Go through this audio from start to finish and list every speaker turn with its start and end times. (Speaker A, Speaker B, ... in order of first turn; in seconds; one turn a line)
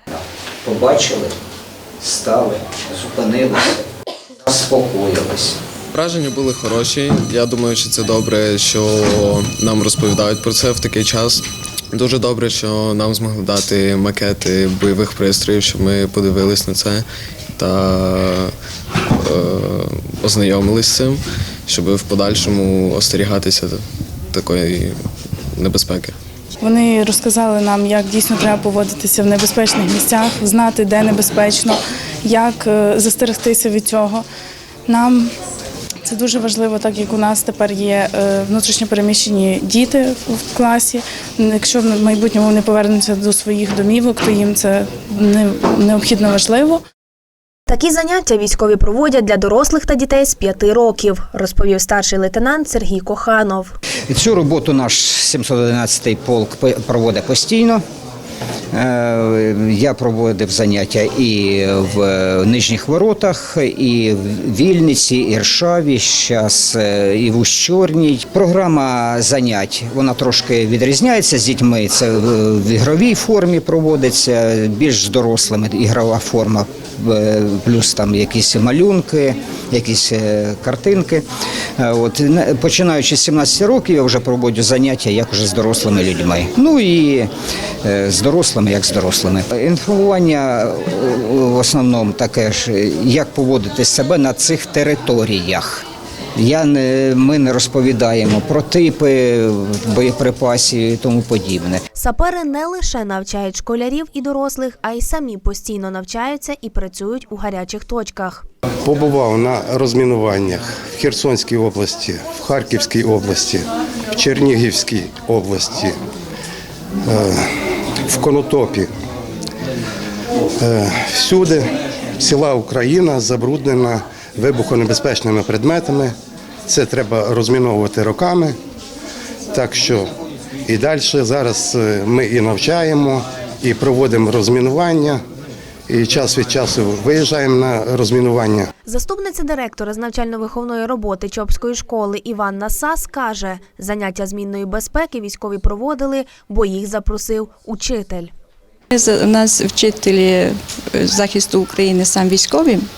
Speaker A: 0.1-1.4
Speaker A: 2.0-3.9
Speaker A: 4.4-5.6
Speaker B: 5.9-17.1
Speaker B: 17.6-18.5
Speaker B: 19.2-23.8
Speaker B: 24.3-25.0
Speaker B: 25.6-26.1
Speaker C: 26.6-34.2
Speaker C: 34.9-35.3
Speaker C: 36.0-46.8
Speaker D: 47.7-53.8
Speaker A: 54.1-57.8
Speaker A: 58.7-81.2
Speaker A: 81.8-87.3
Speaker A: 87.8-101.8
Speaker D: 102.0-108.4
Speaker E: 108.8-116.0
Speaker E: 117.0-117.5
Speaker E: 118.1-118.9
Speaker E: 120.6-126.1
Speaker E: 126.7-128.6
Speaker E: 129.5-130.1
Speaker E: 130.7-135.2
Speaker E: 135.9-138.7
Speaker D: 138.8-148.3
Speaker F: 148.9-152.8